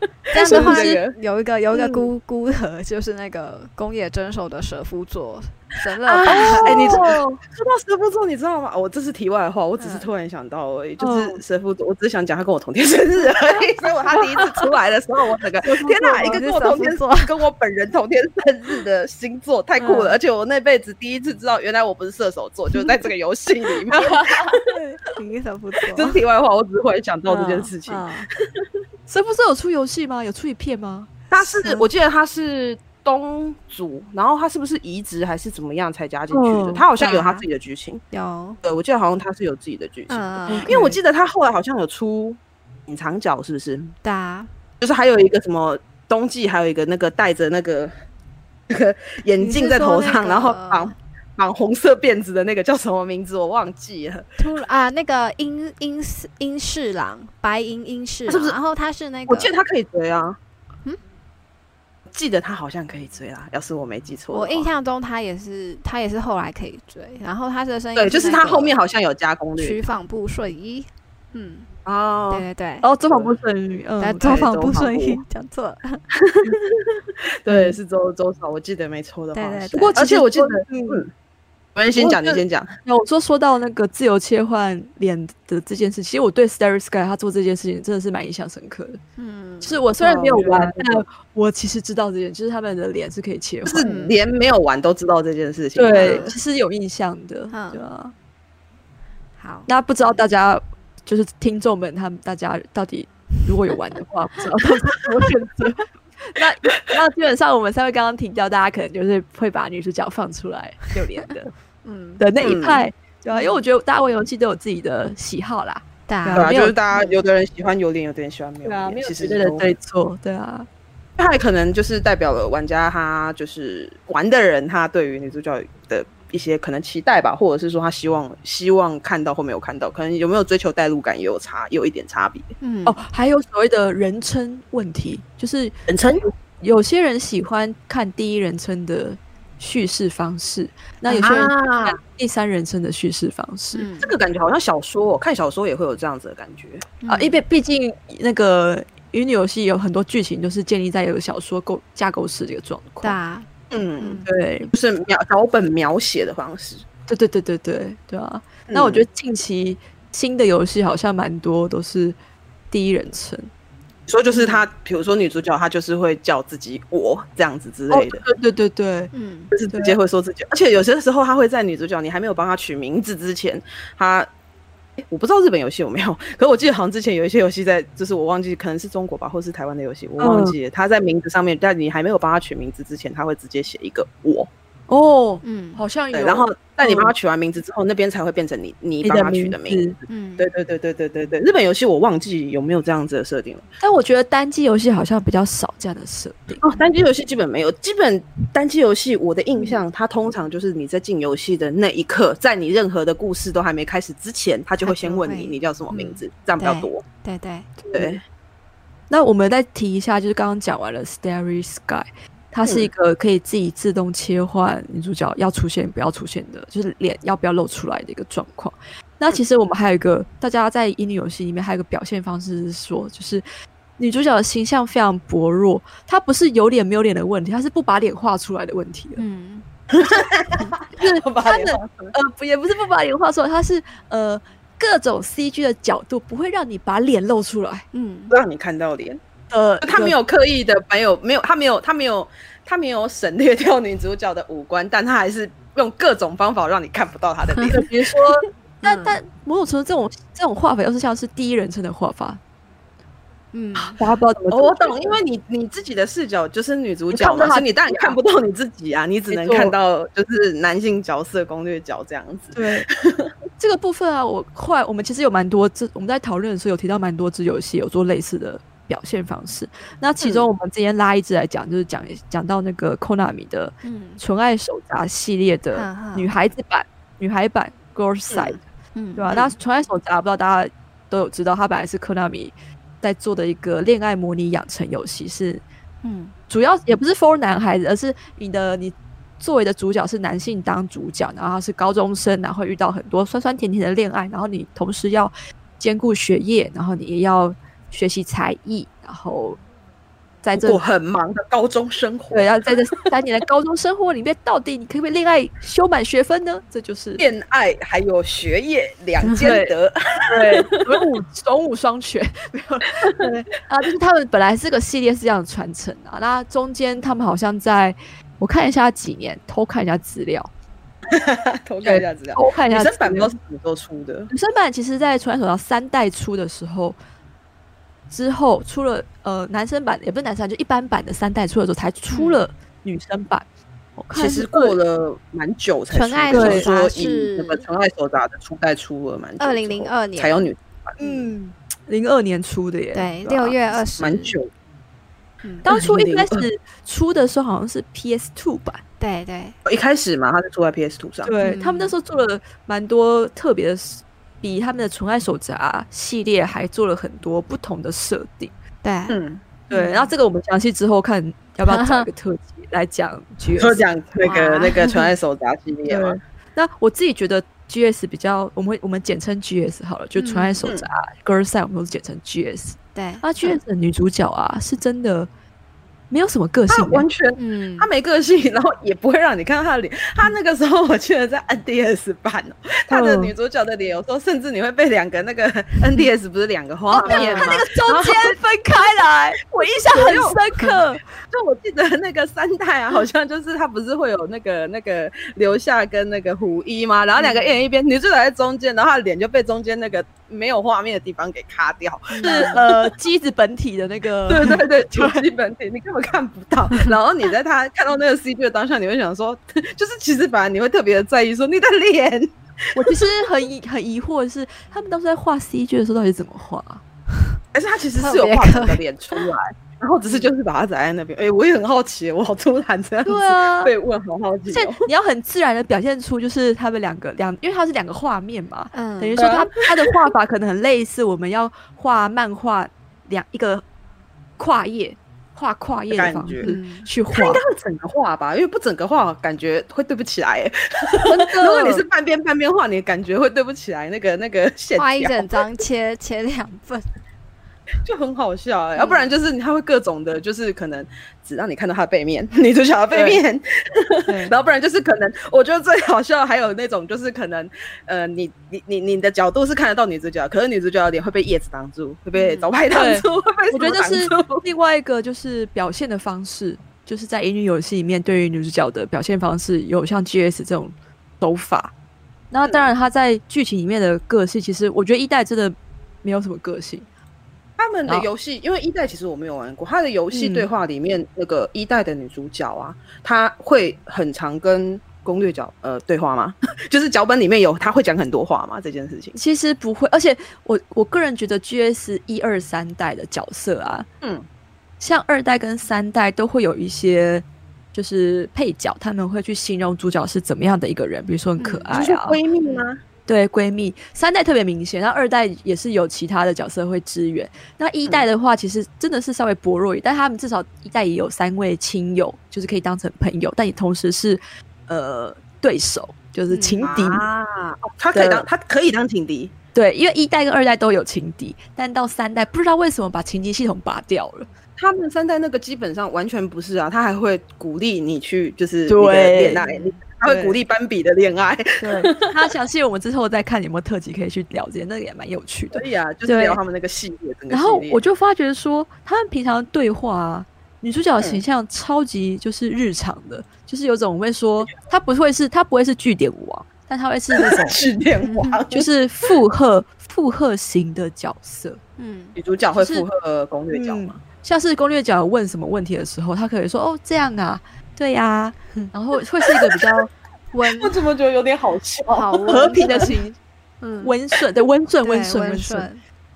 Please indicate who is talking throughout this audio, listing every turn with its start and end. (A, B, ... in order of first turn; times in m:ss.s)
0:00.2-0:01.1 A
0:00.3-0:07.1 B
0:00.4-0:00.9 C
0:01.7-0:02.1 A
0:06.0-0:24.7 A
0:06.2-0:07.2 C
0:09.8-0:10.1 B
0:11.0-0:11.4 C
0:15.6-0:16.3 C
0:16.2-0:17.3 B
0:19.8-0:20.1 C
0:23.9-0:24.6 C
0:24.7-0:26.2 B
0:25.9-0:28.6 A
0:27.3-0:27.7 C
0:27.4-0:28.3 B
0:29.1-0:31.1 C
0:31.3-0:38.0 A
0:31.4-0:31.9 B
0:36.3-0:36.8 C
0:37.0-0:37.4 B
0:38.1-0:38.6 B
0:38.6-0:43.9 A
0:40.1-0:41.0 B
0:44.0-0:44.5 B
0:44.8-0:47.9 A
0:48.7-0:54.3 A
0:49.4-0:50.9 B
0:54.4-0:59.5 B
0:58.3-0:58.6 A
0:59.3-1:00.4 A
1:02.1-1:04.7 A
1:04.3-1:08.8 B
1:08.0-1:09.8 A
1:09.6-1:11.7 B
1:11.8-1:12.4 A
1:12.3-1:12.9 B
1:12.8-1:14.4 C
1:13.1-1:13.3 A
1:14.0-1:16.0 B
1:14.2-1:15.2 A
1:16.2-1:16.7 A
1:17.4-1:21.1 A
1:17.5-1:17.8 C
1:19.3-1:20.0 B
1:19.9-1:21.0 C
1:21.7-1:22.7 A
1:22.0-1:29.0 C
1:29.2-1:30.6 B
1:29.6-1:33.8 C
1:30.0-1:31.0 A
1:33.6-1:36.3 A
1:33.8-1:34.2 B
1:35.7-1:38.1 C
1:35.9-1:36.4 B
1:37.5-1:37.8 B
1:39.4-1:40.3 B
1:39.7-1:51.5 C
1:51.8-1:52.2 B
1:52.2-1:56.8 C
1:52.4-1:52.8 A
1:53.3-1:53.6 B
1:56.1-1:57.2 B
1:56.3-1:59.7 A
1:58.6-2:00.7 C
2:01.2-2:12.5 A
2:12.6-2:13.0 B
2:12.8-2:23.8 C
2:15.9-2:16.2 A
2:21.1-2:21.5 B
2:21.2-2:22.0 A
2:23.7-2:24.1 B
2:24.0-2:26.9 A
2:27.0-2:27.4 B
2:27.1-2:33.2 C
2:33.0-2:33.4 B
2:33.7-2:36.8 A
2:34.0-2:34.3 B
2:34.2-2:34.7 C
2:37.1-2:42.2 C
2:38.7-2:39.0 A
2:42.7-2:43.5 C
2:44.1-2:48.2 A
2:44.3-2:44.6 B
2:47.9-2:49.1 C
2:49.1-2:49.5 B
2:49.5-2:54.3 A
2:49.7-2:50.0 C
2:55.1-3:04.5 A
3:00.2-3:00.5 C
3:04.9-3:07.1 C
3:05.4-3:05.8 B
3:06.1-3:13.6 A
3:09.0-3:10.0 C
3:10.1-3:10.5 B
3:13.8-3:16.8 C
3:16.6-3:27.0 A
3:24.8-3:27.8 B
3:27.8-3:28.2 C
3:27.9-3:28.2 A
3:29.1-3:43.4 C
3:44.0-3:49.2 C
3:49.2-3:49.6 B
3:49.9-3:52.1 A
3:50.9-3:57.8 C
3:57.9-3:58.4 B
3:58.3-3:59.2 A
3:59.5-4:00.2 C
3:59.8-4:08.2 A
4:07.7-4:12.4 C
4:08.8-4:09.2 B
4:13.5-4:14.0 B
4:14.0-4:15.1 C
4:14.5-4:23.3 A
4:17.1-4:18.2 C
4:19.3-4:19.7 C
4:22.5-4:22.9 C
4:23.6-4:38.6 C
4:30.2-4:30.5 A
4:33.8-4:34.2 B
4:35.7-4:36.3 B
4:38.3-4:38.6 A
4:38.9-4:39.4 B
4:39.1-4:45.6 C
4:46.0-4:46.3 B
4:46.5-4:59.6 C
5:00.4-5:00.8 C
5:00.6-5:02.5 A
5:02.3-5:07.2 C
5:07.2-5:11.0 A
5:09.4-5:09.7 C
5:10.3-5:20.5 C
5:21.1-5:24.3 A
5:21.8-5:23.3 C
5:24.3-5:27.0 C
5:28.1-5:33.4 C
5:32.1-5:32.4 B
5:34.0-5:34.8 C
5:34.1-5:41.0 A
5:35.9-5:37.6 B
5:36.3-5:36.7 C
5:39.4-5:41.3 B
5:41.0-5:43.8 C
5:42.9-5:44.3 B
5:44.0-5:44.5 A
5:45.6-5:48.8 C
5:45.7-5:46.4 A
5:49.0-5:49.6 B
5:49.6-5:51.3 A
5:51.2-5:58.5 C
5:51.4-5:51.9 B
5:58.8-6:00.1 B
5:59.1-5:59.4 A
5:59.7-6:03.8 C
6:01.7-6:02.1 B
6:03.6-6:06.2 A
6:04.2-6:05.1 B
6:05.9-6:15.3 C
6:10.2-6:10.6 B
6:12.9-6:13.6 B
6:16.1-6:17.0 C
6:16.7-6:28.3 A
6:17.4-6:17.9 B
6:22.9-6:23.3 C
6:26.9-6:31.0 C
6:27.0-6:27.8 B
6:29.4-6:30.4 A
6:31.3-6:42.9 A
6:37.2-6:37.5 B
6:42.1-6:42.6 B
6:42.2-6:45.2 C
6:44.3-6:53.1 A
6:52.7-6:56.8 C
6:57.5-7:04.9 A
6:58.0-6:58.8 B
7:00.0-7:00.3 B
7:03.0-7:03.7 C
7:04.5-7:13.6 C
7:08.7-7:09.2 B
7:09.2-7:09.9 A
7:14.4-7:17.4 C
7:15.9-7:16.5 A
7:16.4-7:16.9 B
7:17.1-7:25.6 A
7:21.0-7:21.8 C
7:24.8-7:26.8 B
7:27.8-7:44.4 A
7:28.8-7:29.1 B
7:32.9-7:33.2 C
7:34.1-7:34.3 C
7:42.1-7:42.5 B
7:42.7-7:51.7 C
7:52.3-7:56.8 C
7:52.4-7:52.7 A
7:57.6-8:09.2 A
8:00.1-8:00.5 C
8:09.2-8:13.9 C
8:14.8-8:22.2 C
8:21.4-8:21.7 B
8:21.7-8:22.8 A
8:23.1-8:37.0 C
8:36.3-8:36.6 B
8:36.6-8:39.3 A
8:37.9-8:38.3 C
8:39.5-8:44.3 C
8:44.6-8:52.0 A
8:48.7-8:49.4 C
8:49.4-8:49.8 B
8:50.0-8:50.4 C
8:51.6-8:56.4 C
8:55.5-8:57.8 A
8:57.3-9:07.6 C
9:07.1-9:09.1 A
9:08.0-9:08.4 B
9:08.5-9:11.6 C
9:11.8-9:12.2 B
9:12.2-9:14.0 A
9:12.5-9:12.9 C
9:13.5-9:19.9 C
9:20.3-9:20.8 B
9:20.4-9:22.9 A
9:21.9-9:23.0 B
9:22.3-9:23.2 C
9:23.6-9:23.9 B
9:23.8-9:25.7 C
9:24.8-9:25.8 B